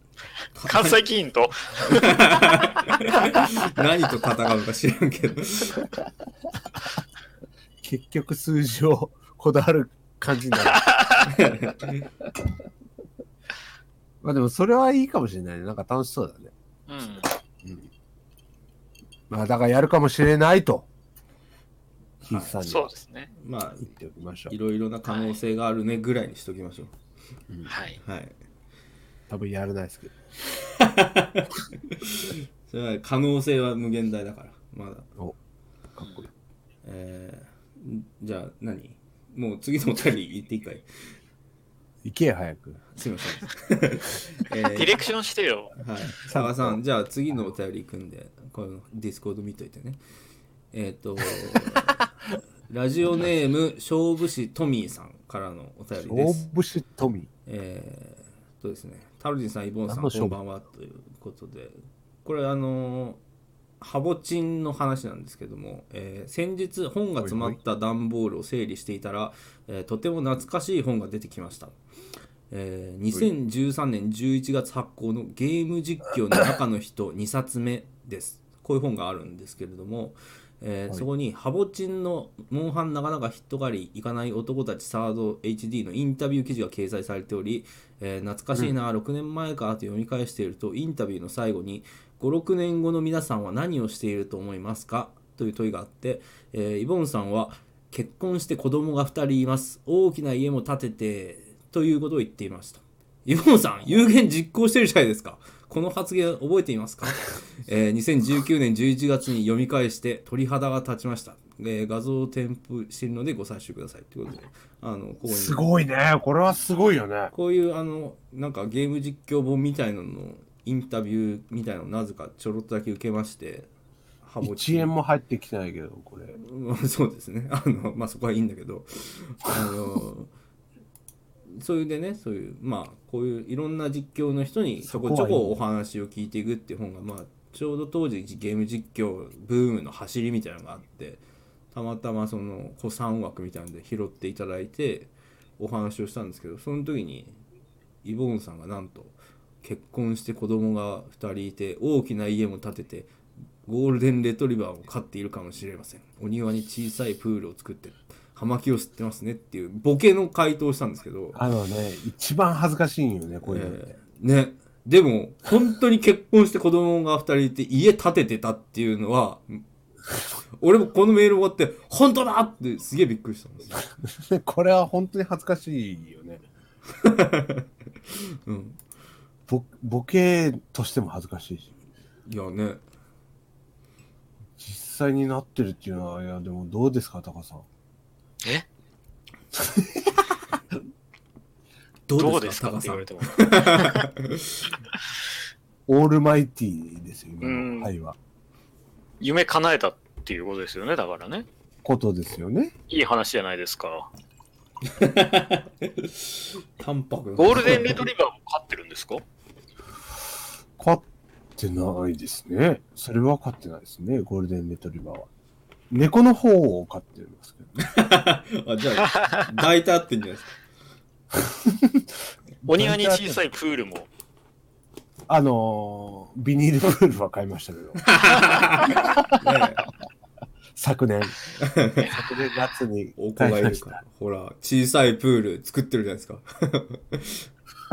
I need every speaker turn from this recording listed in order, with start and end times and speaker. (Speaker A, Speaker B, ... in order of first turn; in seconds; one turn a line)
Speaker A: 0.6-1.0
Speaker B: 0.7-2.1
Speaker A: 1.8-5.8
Speaker C: 7.8-10.8
Speaker B: 10.8-11.2
Speaker A: 11.2-12.1
Speaker C: 14.2-16.5
Speaker B: 16.9-17.3
Speaker C: 17.6-17.9
Speaker C: 19.3-20.9
Speaker A: 22.2-22.6
Speaker C: 22.3-22.9
Speaker B: 22.6-23.3
Speaker A: 23.4-23.9
Speaker C: 23.9-24.5
Speaker A: 24.5-26.9
Speaker B: 25.1-25.4
Speaker B: 27.7-28.0
Speaker A: 28.0-28.3
Speaker C: 29.3-30.1
Speaker A: 30.6-35.1
Speaker C: 36.0-36.3
Speaker A: 36.8-41.1
Speaker C: 42.0-42.8
Speaker A: 42.9-45.0
Speaker B: 44.8-45.7
Speaker A: 45.8-50.0
Speaker C: 46.2-46.8
Speaker A: 50.7-52.0
Speaker C: 51.4-51.8
Speaker A: 52.7-56.5
Speaker C: 56.0-57.3
Speaker A: 57.5-63.2
Speaker C: 59.9-60.4
Speaker A: 63.8-71.8
Speaker C: 67.2-67.6
Speaker A: 72.5-115.7
Speaker C: 115.3-117.3
Speaker A: 117.3-123.7
Speaker A: 124.2-124.9
Speaker C: 124.4-126.3
Speaker A: 126.3-130.3
Speaker A: 131.5-141.2
Speaker C: 134.8-135.6
Speaker A: 141.7-147.3
Speaker A: 148.0-153.1
Speaker A: 153.6-161.4
Speaker C: 161.3-163.8
Speaker A: 163.4-169.6
Speaker A: 170.6-173.9
Speaker C: 174.1-176.4
Speaker A: 176.9-178.8
Speaker C: 179.5-181.7
Speaker A: 182.2-182.8
Speaker C: 184.6-187.7
Speaker C: 189.5-190.3
Speaker A: 192.1-194.7
Speaker B: 192.2-194.0
Speaker C: 195.9-198.2
Speaker B: 197.4-197.9
Speaker B: 199.2-201.4
Speaker C: 201.8-202.7
Speaker B: 202.9-204.1
Speaker A: 204.8-208.1
Speaker B: 207.4-209.2
Speaker C: 210.8-211.0
Speaker C: 211.6-215.3
Speaker C: 215.9-217.7
Speaker A: 217.8-220.5
Speaker C: 221.3-222.1
Speaker C: 222.6-223.4
Speaker B: 222.7-224.1
Speaker C: 225.3-228.0
Speaker A: 228.0-229.8
Speaker C: 229.0-229.2
Speaker C: 230.8-231.3
Speaker A: 231.6-232.0
Speaker B: 232.0-232.6
Speaker C: 232.1-234.0
Speaker A: 233.2-237.5